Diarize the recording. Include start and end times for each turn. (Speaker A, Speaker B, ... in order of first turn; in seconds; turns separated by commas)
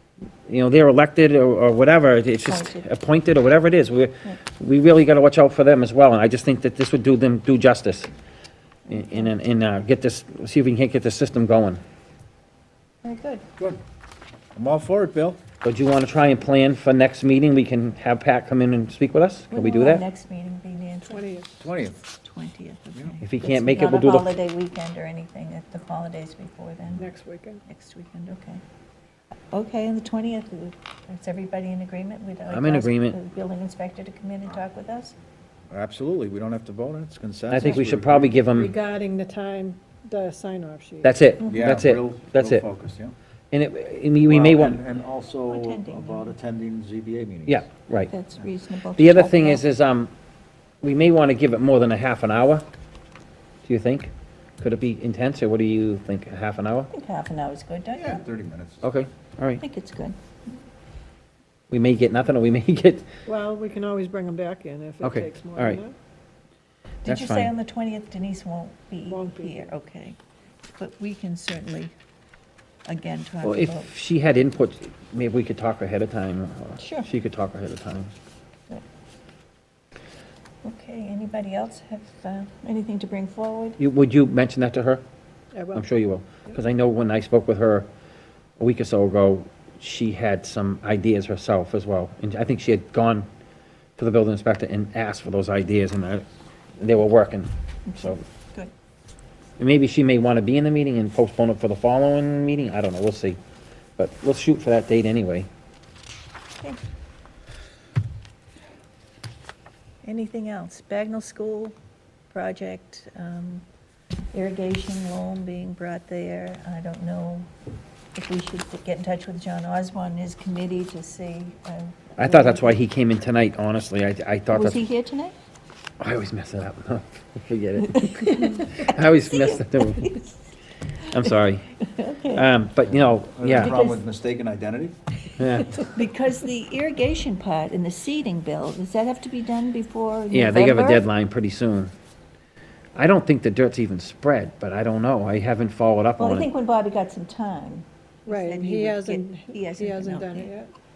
Speaker A: 0.5-8.1, Speaker B: 2.5-2.8, Speaker B: 8.9-9.3, Speaker A: 8.9-11.8, Speaker B: 13.0-13.4, Speaker C: 14.5-15.4, Speaker A: 15.6-20.1, Speaker B: 19.5-27.1, Speaker D: 21.1-21.6, Speaker C: 21.6-22.0, Speaker A: 23.2-24.4, Speaker D: 27.0-27.6, Speaker B: 27.7-28.6, Speaker B: 29.5-35.2, Speaker A: 32.5-33.2, Speaker C: 35.7-38.4, Speaker A: 37.5-38.8, Speaker D: 38.5-41.2, Speaker A: 41.0-42.6, Speaker C: 41.4-43.1, Speaker A: 43.5-44.8, Speaker C: 44.3-47.7, Speaker B: 45.5-46.4, Speaker A: 47.5-48.1, Speaker B: 48.1-49.6, Speaker A: 49.0-50.1, Speaker A: 50.8-52.7, Speaker A: 53.6-56.9, Speaker B: 56.9-58.2, Speaker C: 58.0-58.9, Speaker A: 58.8-59.6, Speaker B: 59.6-60.2, Speaker A: 61.7-63.1, Speaker D: 63.3-66.0, Speaker A: 65.0-65.8, Speaker B: 67.0-70.2, Speaker A: 67.1-67.5, Speaker D: 69.1-69.7, Speaker B: 70.8-71.9, Speaker B: 72.9-73.9, Speaker A: 73.4-78.1, Speaker B: 76.8-77.1, Speaker B: 80.6-83.8, Speaker A: 83.8-85.0, Speaker D: 85.5-85.8, Speaker A: 85.7-87.9, Speaker A: 88.6-93.3, Speaker A: 94.0-96.3, Speaker A: 96.8-98.2, Speaker B: 97.9-98.7, Speaker A: 99.6-103.4, Speaker A: 104.0-105.5, Speaker B: 110.0-111.7, Speaker B: 112.3-113.7, Speaker B: 114.3-117.5, Speaker B: 118.2-122.8, Speaker A: 122.2-124.9, Speaker B: 124.5-125.4, Speaker A: 126.0-130.2, Speaker B: 127.8-130.4, Speaker B: 131.0-132.5, Speaker A: 131.1-131.8, Speaker A: 132.3-133.8, Speaker C: 132.9-135.0, Speaker B: 133.5-134.0, Speaker A: 135.4-135.9, Speaker B: 135.8-141.1, Speaker A: 140.3-141.9, Speaker A: 143.0-146.5, Speaker B: 146.2-150.5, Speaker D: 148.3-150.7